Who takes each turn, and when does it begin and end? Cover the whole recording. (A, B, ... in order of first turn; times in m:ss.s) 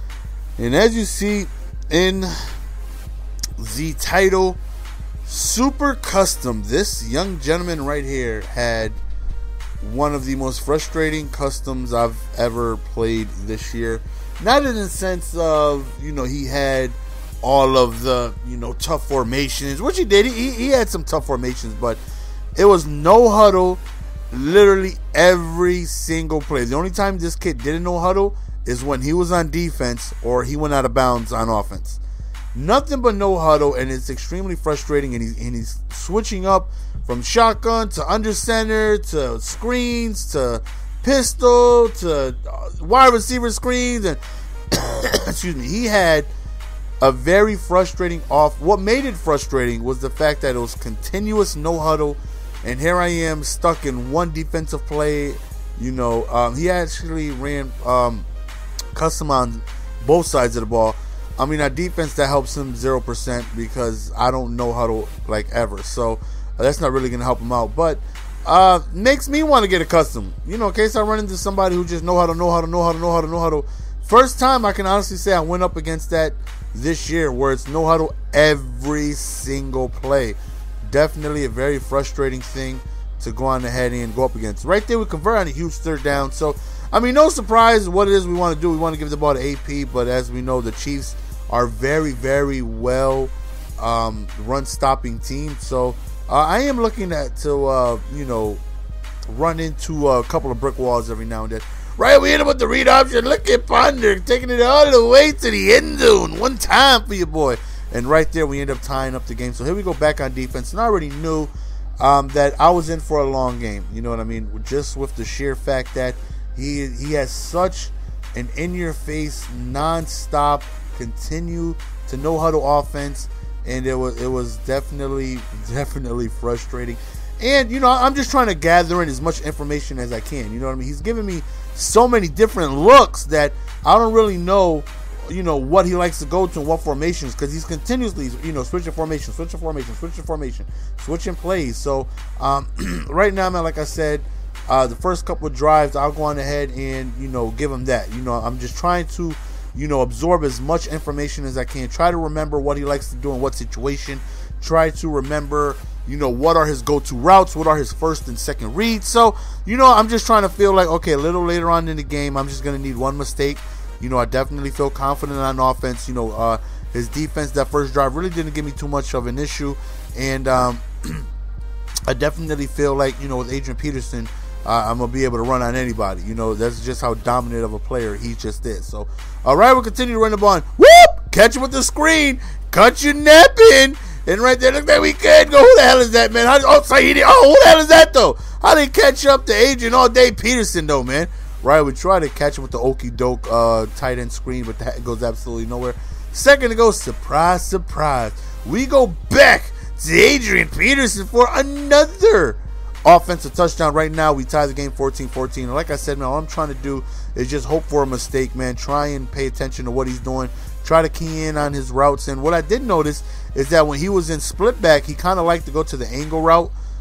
0:00.6-0:02.3 A
0:03.6-0:04.6 A
0:05.2-0:09.0 A
0:09.8-0:22.0 A
0:22.6-0:32.0 A
0:32.5-0:44.2 A
0:44.7-0:46.3 A
0:47.0-0:58.2 A
0:58.9-1:38.6 A
1:39.3-2:51.2 A
2:52.1-3:36.7 A